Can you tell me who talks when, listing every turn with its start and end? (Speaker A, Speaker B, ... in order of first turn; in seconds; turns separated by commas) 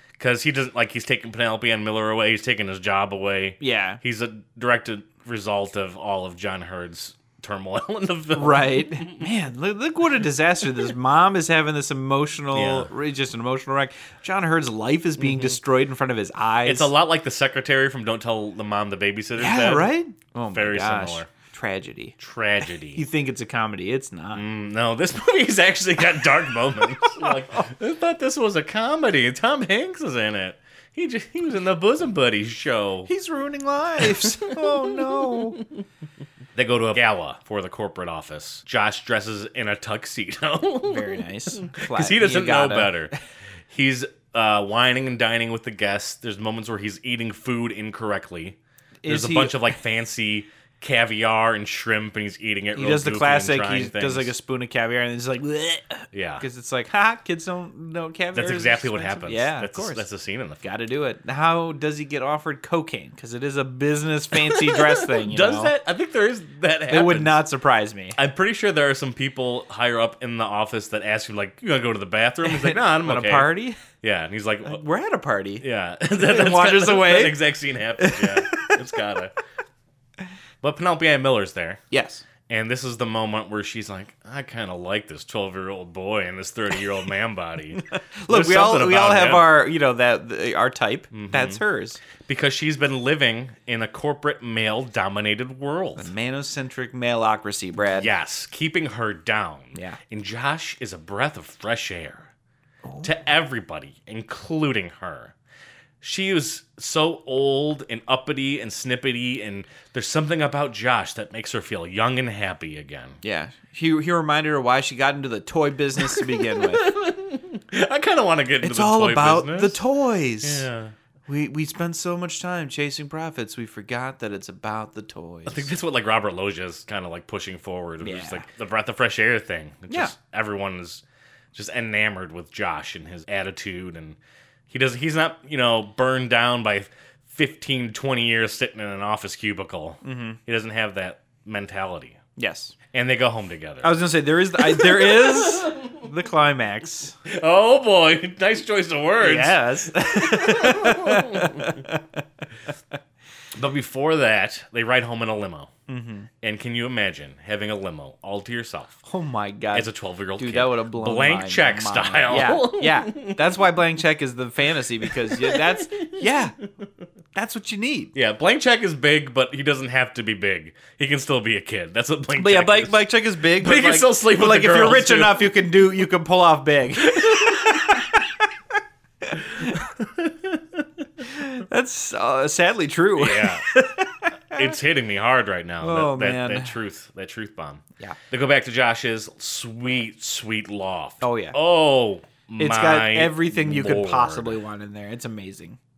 Speaker A: 0.2-9.3, Speaker B: 3.6-4.0, Speaker B: 8.3-16.9, Speaker A: 12.5-12.9, Speaker A: 15.2-15.6, Speaker A: 16.6-19.9, Speaker B: 19.4-22.2, Speaker A: 20.5-21.3, Speaker A: 22.2-23.0, Speaker B: 22.9-24.4, Speaker A: 24.3-33.1, Speaker B: 26.8-27.7, Speaker B: 33.1-35.6, Speaker A: 34.4-35.4, Speaker A: 36.6-43.1, Speaker B: 40.8-43.1, Speaker A: 43.7-54.3, Speaker B: 49.0-49.8, Speaker B: 52.7-60.1, Speaker A: 56.1-56.4, Speaker A: 58.3-60.6, Speaker B: 60.6-65.7, Speaker A: 64.4-67.4, Speaker B: 66.9-68.2, Speaker A: 68.2-74.8, Speaker B: 72.4-73.8, Speaker B: 74.6-78.7, Speaker A: 75.6-79.3, Speaker A: 80.6-81.8, Speaker B: 81.9-82.2, Speaker A: 82.5-89.6, Speaker B: 88.2-92.0, Speaker A: 91.1-91.6, Speaker A: 92.2-96.1, Speaker B: 96.0-98.1, Speaker A: 98.0-102.3, Speaker B: 102.8-103.1, Speaker A: 103.0-105.3, Speaker A: 106.0-113.2, Speaker B: 113.2-116.9, Speaker A: 116.0-119.8, Speaker B: 118.6-120.7, Speaker A: 120.4-120.9, Speaker B: 121.3-125.7, Speaker A: 125.5-131.0, Speaker B: 128.0-128.5, Speaker B: 129.9-130.2, Speaker A: 131.5-134.2, Speaker A: 134.7-142.2, Speaker B: 140.0-140.4, Speaker B: 142.4-142.8, Speaker A: 142.9-144.0, Speaker B: 143.8-147.2, Speaker A: 144.6-146.0, Speaker A: 147.3-149.6, Speaker B: 149.2-152.2, Speaker A: 150.2-151.7, Speaker A: 153.6-155.7, Speaker B: 155.9-156.3, Speaker A: 156.4-159.0, Speaker B: 159.0-166.6, Speaker A: 159.7-163.4, Speaker A: 165.2-166.2, Speaker B: 167.3-168.1, Speaker A: 168.1-175.6, Speaker B: 172.4-178.4, Speaker A: 177.2-177.5, Speaker A: 180.0-180.6, Speaker B: 181.2-184.7, Speaker A: 183.2-183.7, Speaker A: 184.5-194.6, Speaker B: 185.8-186.8, Speaker B: 191.2-191.6, Speaker B: 192.6-195.8